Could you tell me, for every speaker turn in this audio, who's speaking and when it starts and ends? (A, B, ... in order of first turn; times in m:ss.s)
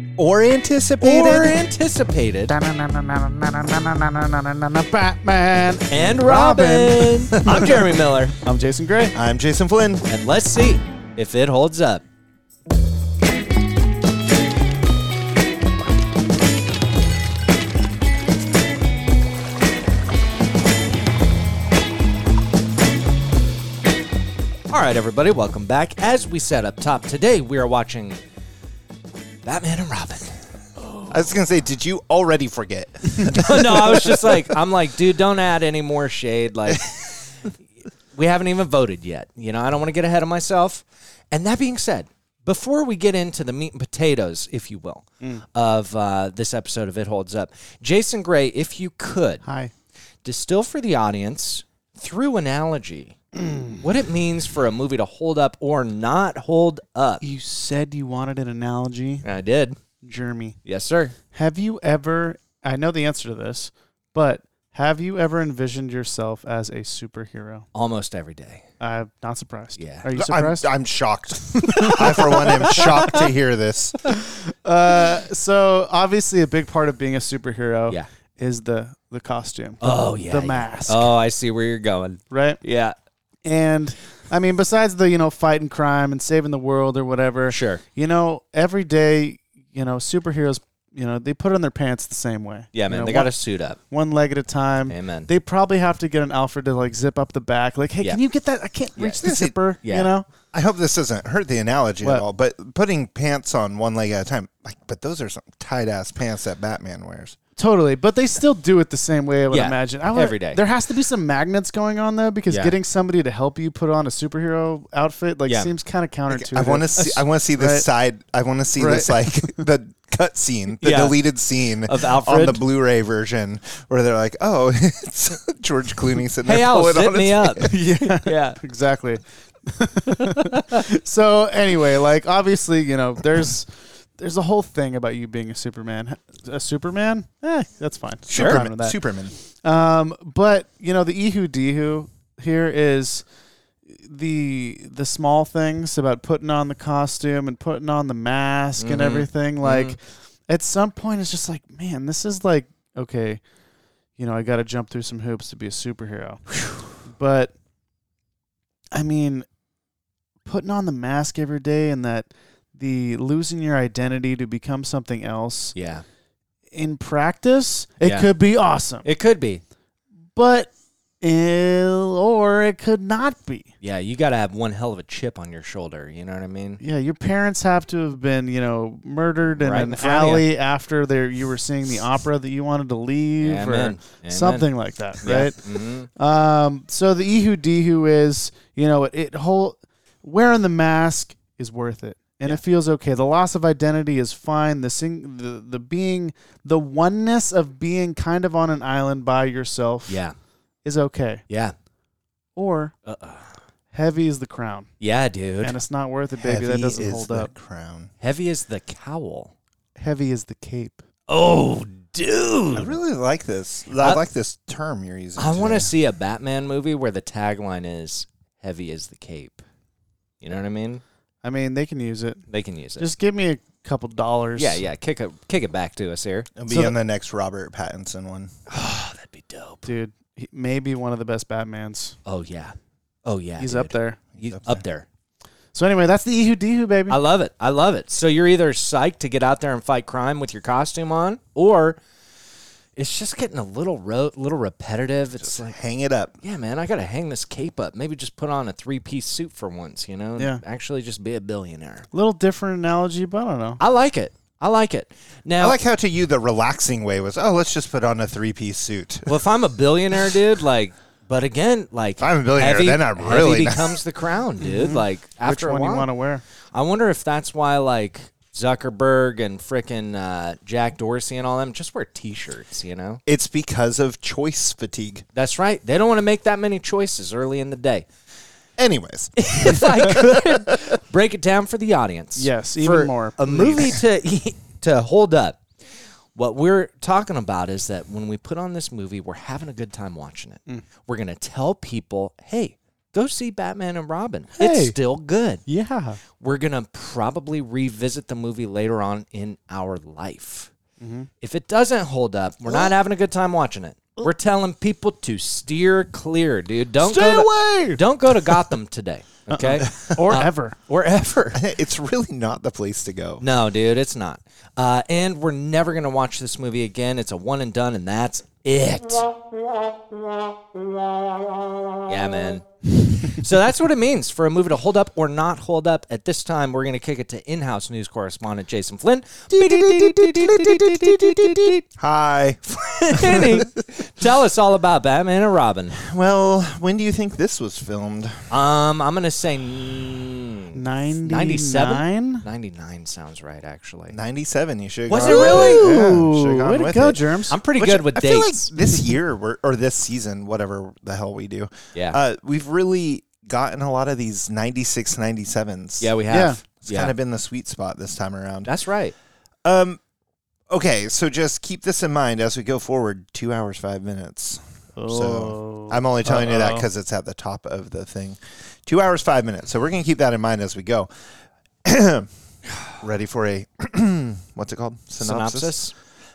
0:00.2-0:01.6 A
0:01.0-0:02.6 B
0:02.5-0:07.8 C
0:05.9-0:08.3 B
0:08.4-0:09.1 C
0:09.1-0:10.0 A
0:10.1-0:12.0 B
0:24.7-0:28.2 B
0:29.4-0:30.3 B
0:31.1-0:34.6 A
0:33.2-0:36.9 B
0:36.7-0:37.1 A
0:38.1-0:49.4 B
0:49.4-0:49.7 C
0:50.2-0:53.2 B
0:53.3-0:53.8 C
0:53.8-0:57.2 B
0:57.2-0:59.2 C
0:59.2-0:59.8 B
1:00.0-1:00.6 C
1:00.6-1:01.1 B
1:01.3-1:07.7 C
1:07.7-1:08.6 B
1:08.8-1:10.7 C
1:09.8-1:10.0 B
1:10.1-1:14.0 A
1:11.8-1:13.2 B
1:14.4-1:21.1 C
1:19.8-1:22.9 B
1:22.3-1:22.6 C
1:23.4-1:33.3 C
1:27.5-1:27.8 B
1:32.7-1:33.8 B
1:33.9-1:40.3 C
1:34.9-1:35.3 B
1:39.0-1:39.2 B
1:39.2-1:39.6 A
1:39.8-1:40.1 B
1:40.5-1:47.4 A
1:47.6-1:57.9 C
1:49.5-1:50.6 B
1:52.5-1:52.7 B
1:56.3-2:07.7 A
1:58.8-1:59.6 C
2:00.8-2:01.2 B
2:01.9-2:02.6 B
2:06.4-2:08.6 B
2:07.6-2:19.0 C
2:10.4-2:10.8 B
2:18.3-2:19.3 A
2:18.3-2:18.6 B
2:19.6-2:23.2 C
2:23.9-2:33.4 C
2:28.8-2:30.0 B
2:34.2-2:36.5 C
2:37.1-2:37.5 C
2:38.9-2:39.5 C
2:40.4-2:45.8 C
2:45.8-2:46.0 B
2:46.7-2:49.1 C
2:48.0-2:48.3 B
2:49.0-2:49.6 B
2:50.4-2:50.7 C
2:51.2-2:53.7 C
2:53.8-2:56.8 B
2:56.8-3:20.2 C
2:59.6-3:00.5 B
3:03.4-3:04.7 B
3:05.2-3:06.1 B
3:20.1-3:20.3 B
3:20.8-3:21.4 C
3:21.5-3:21.8 B
3:22.6-3:22.9 C
3:23.1-3:23.5 B
3:23.9-3:24.9 C
3:25.0-3:25.8 B
3:25.6-3:27.5 C
3:26.4-3:28.1 A
3:28.2-3:29.5 B
3:30.0-3:31.0 C
3:31.3-3:33.0 B
3:32.7-3:35.9 A
3:34.0-3:34.2 B
3:35.4-3:39.6 B
3:40.4-3:41.0 B
3:41.4-3:42.4 C
3:42.5-3:43.1 B
3:43.0-3:44.8 C
3:44.6-3:46.5 B
3:46.6-3:48.5 A
3:46.7-3:47.0 C
3:48.7-3:49.9 B
3:49.8-3:52.2 C
3:52.3-3:55.1 B
3:53.6-3:54.2 C
3:54.4-3:54.8 A
3:55.7-3:57.2 C
3:57.1-4:02.0 B
4:03.0-4:05.8 B
4:05.4-4:06.4 A
4:06.4-4:12.1 B
4:12.1-4:13.8 C
4:13.8-4:15.8 B
4:15.6-4:19.3 A
4:19.2-4:26.1 B
4:22.2-4:24.0 A
4:24.6-4:26.4 C
4:26.7-4:33.2 B
4:33.2-4:35.2 A
4:35.3-4:38.1 B
4:38.8-4:41.0 A
4:39.4-4:45.6 B
4:42.4-4:44.0 C
4:46.4-4:55.6 B
4:54.6-4:55.0 C
4:55.6-4:56.2 C
4:56.4-5:00.7 B
5:01.0-5:01.3 C
5:01.4-5:11.6 B
5:07.0-5:08.0 C
5:09.5-5:10.8 C
5:11.5-5:13.4 A
5:13.4-5:19.3 B
5:22.1-5:31.8 B
5:29.5-5:33.7 A
5:32.7-5:36.0 B
5:35.9-5:38.5 A
5:38.5-5:44.2 B
5:40.8-5:42.4 C
5:44.1-5:56.1 A
5:45.1-5:45.9 B
5:45.2-5:47.6 C
5:47.5-5:48.7 B
5:51.9-5:52.2 B
5:56.0-5:57.1 B
5:56.3-5:56.6 C
5:56.8-5:58.7 A
5:58.6-5:59.1 B
5:59.6-6:00.0 A
6:00.7-6:11.1 A
6:05.0-6:06.8 C
6:11.8-6:12.3 A
6:13.0-6:15.8 A
6:15.2-6:15.9 B